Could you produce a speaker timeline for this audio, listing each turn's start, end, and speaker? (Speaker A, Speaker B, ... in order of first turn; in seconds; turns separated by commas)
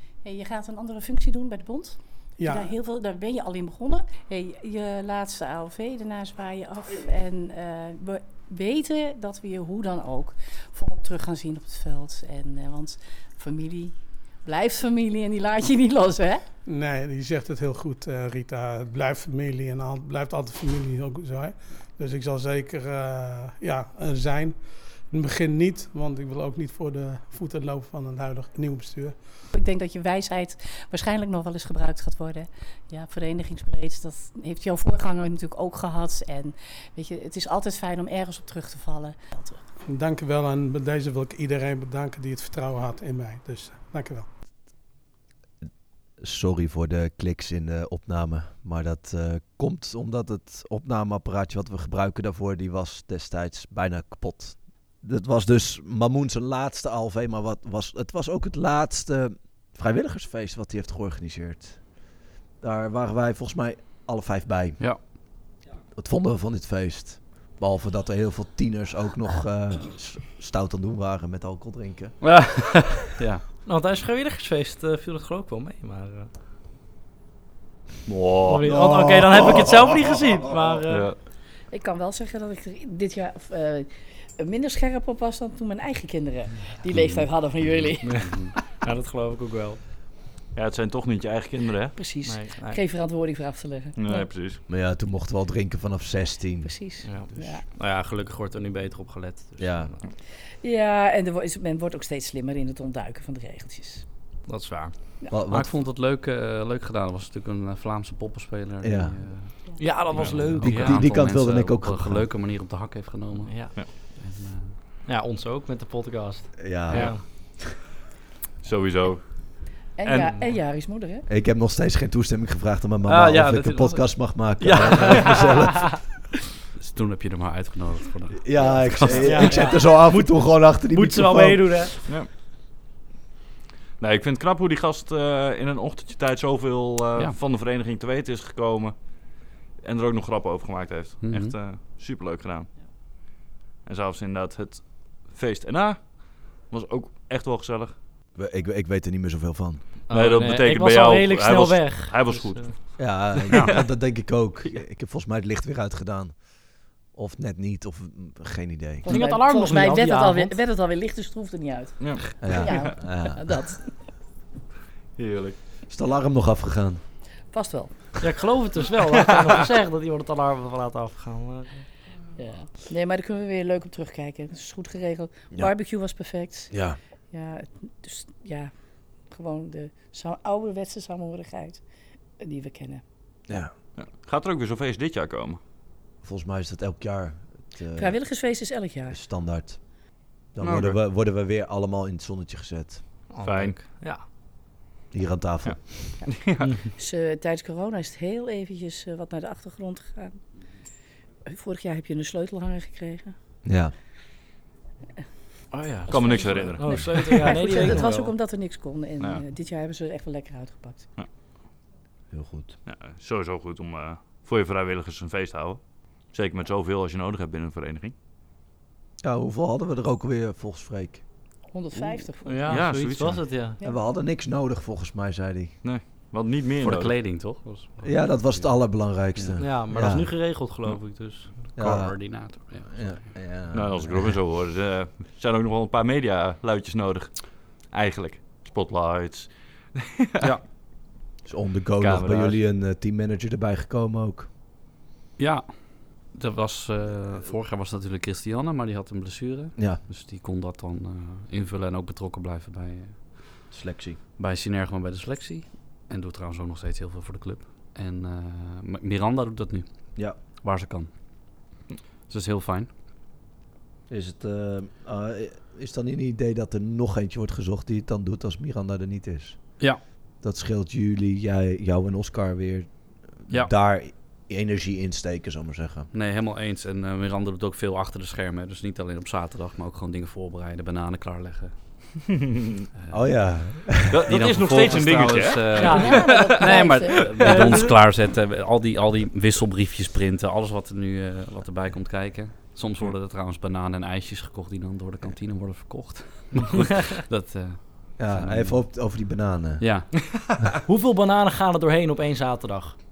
Speaker A: 0.2-16.4, Speaker B: 2.4-2.7, Speaker B: 16.6-29.2, Speaker A: 29.5-39.6, Speaker B: 39.9-44.3, Speaker C: 46.2-61.9, Speaker C: 62.6-64.8, Speaker C: 65.9-72.3, Speaker D: 72.2-73.4, Speaker E: 73.7-76.3, Speaker F: 78.1-78.7, Speaker E: 78.5-81.1, Speaker C: 78.6-80.1, Speaker F: 80.9-81.2, Speaker A: 81.7-88.3, Speaker E: 88.0-89.8, Speaker D: 88.2-88.5, Speaker F: 90.5-92.0, Speaker A: 92.0-94.2, Speaker E: 92.2-92.8, Speaker F: 94.0-94.6, Speaker C: 94.7-96.7, Speaker A: 96.6-97.6, Speaker E: 97.0-99.9, Speaker C: 99.6-99.9, Speaker A: 100.6-104.0, Speaker E: 104.5-104.9, Speaker C: 105.3-105.7, Speaker D: 105.5-114.8, Speaker C: 108.8-109.2, Speaker E: 109.8-111.2, Speaker F: 110.1-110.6, Speaker C: 110.5-112.3, Speaker E: 113.4-113.8, Speaker E: 115.0-117.2, Speaker C: 116.6-117.2, Speaker F: 116.9-117.2, Speaker F: 118.6-120.4, Speaker A: 120.0-121.2, Speaker C: 121.3-126.0, Speaker E: 123.0-126.0, Speaker D: 126.8-129.5, Speaker C: 128.4-131.9, Speaker E: 129.1-132.0, Speaker F: 134.0-138.9, Speaker F: 139.8-142.7, Speaker D: 141.2-141.5, Speaker F: 143.8-148.0, Speaker C: 148.3-149.9, Speaker E: 150.1-152.8, Speaker F: 150.1-153.7, Speaker C: 153.0-156.5, Speaker C: 157.1-159.1, Speaker A: 159.0-163.9, Speaker E: 159.0-160.6, Speaker F: 162.0-162.9, Speaker C: 162.4-163.4, Speaker F: 165.2-165.6, Speaker C: 165.9-167.0, Speaker A: 167.5-167.9, Speaker E: 168.2-171.9, Speaker F: 169.2-169.5, Speaker A: 172.4-176.7, Speaker C: 176.7-177.0, Speaker A: 177.3-178.7, Speaker A: 179.2-181.8, Speaker A: 182.4-183.0, Speaker C: 183.5-183.7, Speaker F: 183.9-185.6, Speaker C: 186.2-188.2, Speaker A: 187.9-189.2, Speaker C: 189.1-193.2, Speaker F: 190.6-191.0, Speaker E: 193.3-194.2, Speaker F: 193.4-193.9, Speaker C: 195.1-196.2, Speaker F: 195.6-196.7, Speaker A: 196.9-200.4, Speaker A: 201.4-203.3, Speaker C: 203.6-203.9, Speaker E: 205.7-208.3, Speaker F: 206.0-207.9, Speaker A: 206.1-211.1, Speaker C: 212.3-212.8, Speaker F: 212.8-218.1, Speaker C: 219.2-221.2, Speaker A: 221.7-222.8, Speaker E: 222.4-223.8, Speaker F: 222.7-223.6, Speaker C: 223.8-225.8, Speaker F: 225.8-227.1, Speaker D: 226.8-228.7, Speaker C: 228.0-230.3, Speaker E: 229.6-231.7, Speaker D: 231.7-233.3, Speaker C: 231.8-234.4, Speaker F: 233.7-240.5, Speaker C: 241.4-244.5, Speaker F: 242.0-242.6, Speaker D: 245.4-253.6, Speaker C: 249.8-250.0, Speaker C: 253.7-254.2, Speaker D: 254.4-261.1, Speaker D: 262.3-262.9, Speaker C: 264.1-269.7, Speaker C: 270.4-276.1, Speaker D: 276.1-282.1, Speaker C: 283.1-285.0, Speaker F: 284.1-286.6, Speaker D: 284.3-298.9, Speaker E: 284.7-286.3, Speaker A: 285.9-287.2, Speaker E: 287.4-287.9, Speaker E: 296.7-297.0, Speaker C: 298.2-299.9, Speaker D: 299.8-300.1, Speaker E: 300.9-302.9